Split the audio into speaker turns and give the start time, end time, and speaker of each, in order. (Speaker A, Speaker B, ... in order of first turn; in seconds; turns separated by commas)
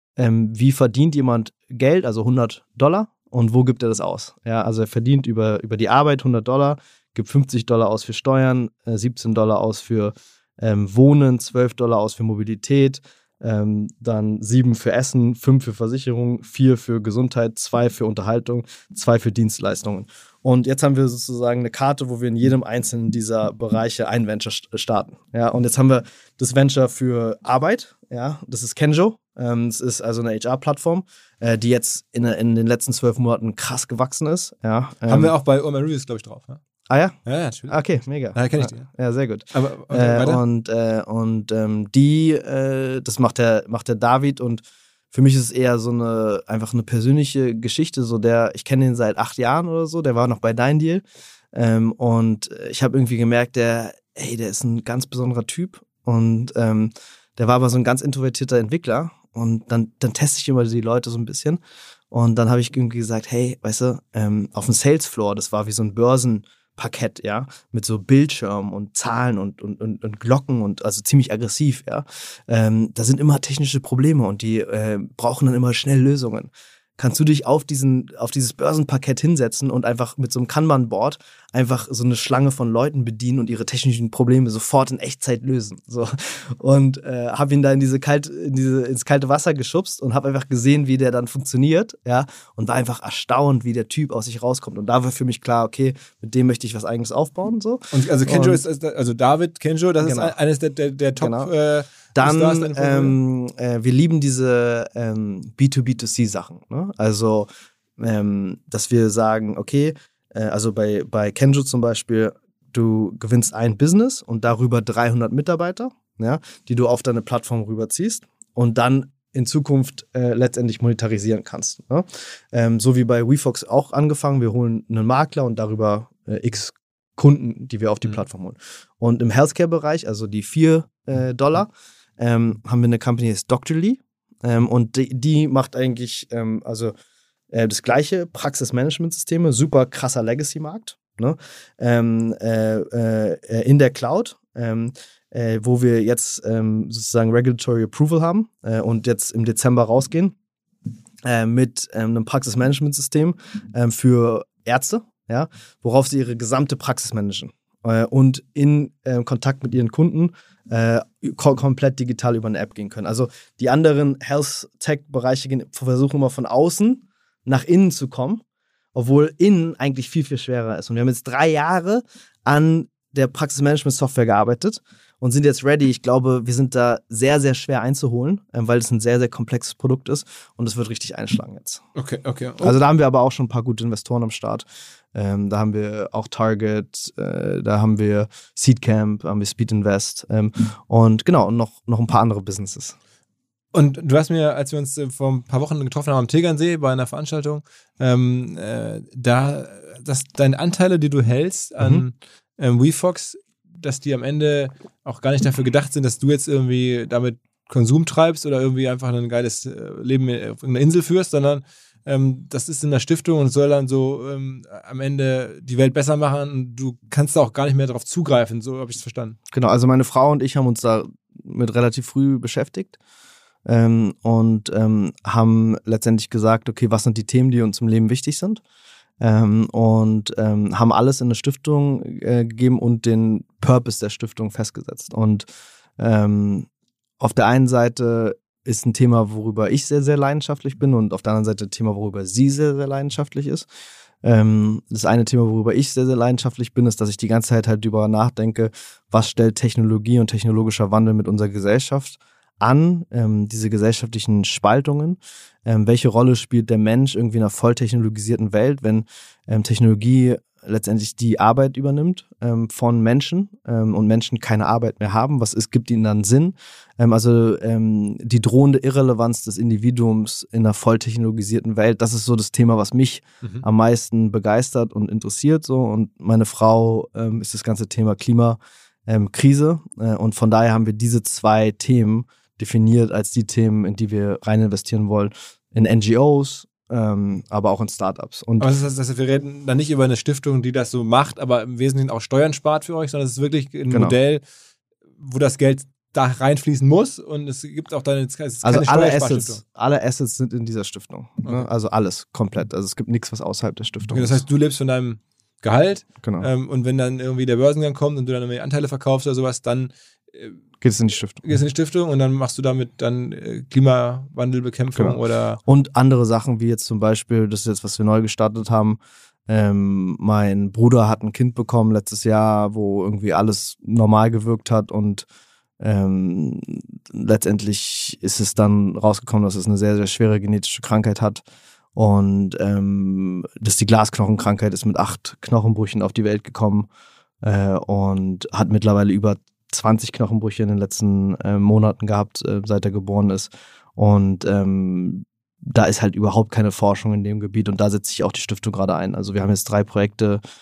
Speaker A: 0.2-35.3, Speaker B: 35.1-36.6, Speaker A: 36.9-61.6, Speaker B: 37.3-37.8, Speaker B: 38.3-38.9, Speaker B: 39.5-40.4, Speaker A: 62.1-98.6, Speaker B: 97.9-103.2, Speaker A: 100.0-100.4, Speaker A: 101.2-101.5, Speaker A: 102.2-136.9, Speaker A: 137.5-150.3, Speaker A: 151.2-168.4, Speaker A: 168.9-181.8, Speaker B: 181.9-182.8, Speaker A: 182.6-193.0, Speaker B: 193.7-219.4, Speaker A: 219.5-223.0, Speaker A: 223.7-228.6, Speaker A: 229.2-235.5, Speaker A: 236.0-236.7, Speaker A: 237.2-243.7, Speaker A: 244.2-288.7, Speaker B: 288.6-294.4, Speaker A: 293.9-294.2, Speaker B: 295.2-299.6, Speaker A: 298.6-304.4, Speaker B: 304.1-310.6, Speaker A: 310.8-311.5, Speaker B: 311.4-315.6, Speaker A: 315.0-325.3, Speaker A: 325.8-331.4, Speaker A: 332.0-336.9, Speaker A: 337.4-350.4